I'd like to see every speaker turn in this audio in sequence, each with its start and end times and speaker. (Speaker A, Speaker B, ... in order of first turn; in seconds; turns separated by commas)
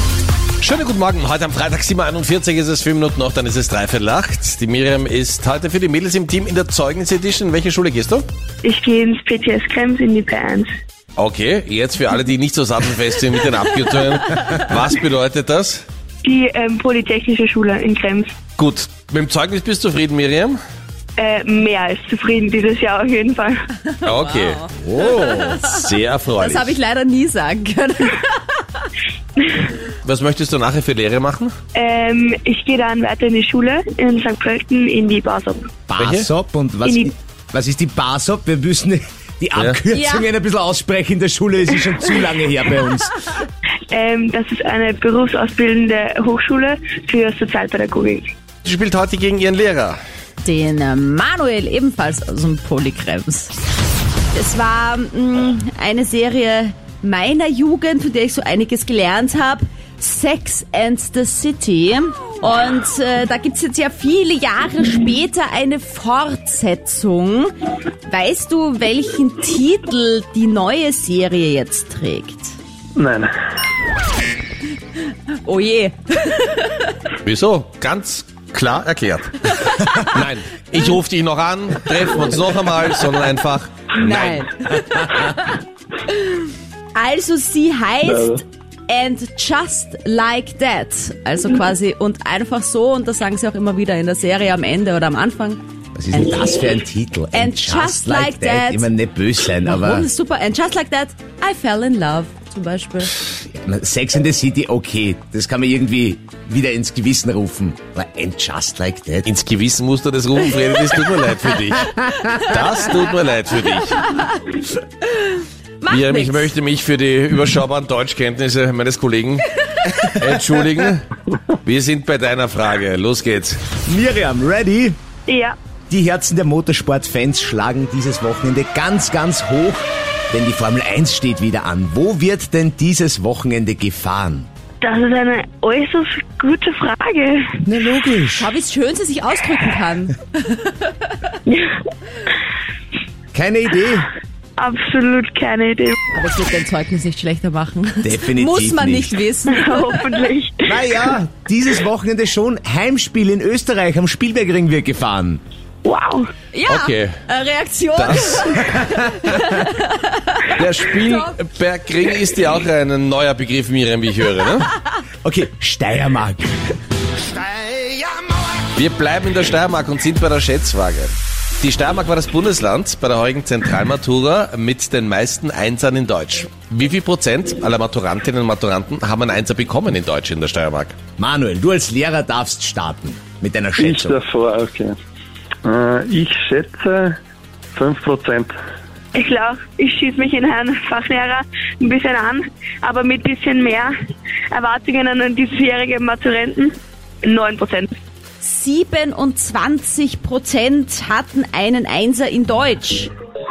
Speaker A: 0.6-8.3, Speaker B: 8.6-10.7, Speaker A: 11.2-15.8, Speaker B: 16.2-18.4, Speaker A: 18.6-20.6, Speaker B: 21.2-23.6, Speaker C: 23.9-28.9, Speaker A: 24.1-26.7, Speaker B: 29.4-29.7, Speaker A: 30.0-31.5, Speaker B: 31.8-35.7, Speaker D: 35.9-43.3, Speaker A: 36.0-36.3, Speaker B: 36.8-37.1, Speaker C: 39.9-40.3, Speaker B: 43.9-48.3, Speaker A: 48.6-50.0, Speaker C: 50.4-53.5, Speaker C: 54.3-72.6, Speaker E: 73.0-73.3, Speaker C: 75.4-77.0, Speaker A: 77.2-84.4, Speaker C: 79.7-80.0, Speaker C: 83.9-85.6, Speaker C: 87.0-95.6, Speaker E: 88.0-88.4, Speaker D: 96.0-100.1, Speaker C: 96.2-96.5, Speaker C: 97.3-98.9, Speaker C: 99.6-103.2, Speaker D: 103.4-109.3, Speaker A: 109.2-114.0, Speaker C: 114.1-114.4, Speaker C: 115.8-116.5, Speaker A: 115.9-119.5, Speaker A: 120.0-123.6, Speaker D: 123.8-125.0, Speaker B: 125.3-125.6, Speaker D: 125.9-134.5, Speaker B: 134.8-137.6, Speaker D: 137.7-138.5, Speaker C: 138.3-140.9, Speaker B: 141.5-141.8, Speaker D: 143.3-144.1, Speaker B: 144.6-146.0, Speaker C: 146.1-150.0, Speaker D: 148.0-149.2, Speaker B: 149.5-150.8, Speaker D: 150.7-155.4, Speaker B: 155.8-156.3, Speaker C: 156.5-161.3, Speaker A: 156.7-157.1, Speaker A: 158.0-158.6, Speaker D: 158.6-159.6, Speaker A: 160.5-164.7, Speaker D: 165.2-166.6, Speaker D: 167.4-168.1, Speaker A: 168.7-181.0, Speaker D: 181.2-184.2, Speaker E: 183.8-185.0, Speaker E: 185.6-187.2, Speaker E: 187.7-188.6, Speaker B: 189.2-193.9, Speaker B: 194.5-197.9, Speaker C: 198.4-203.1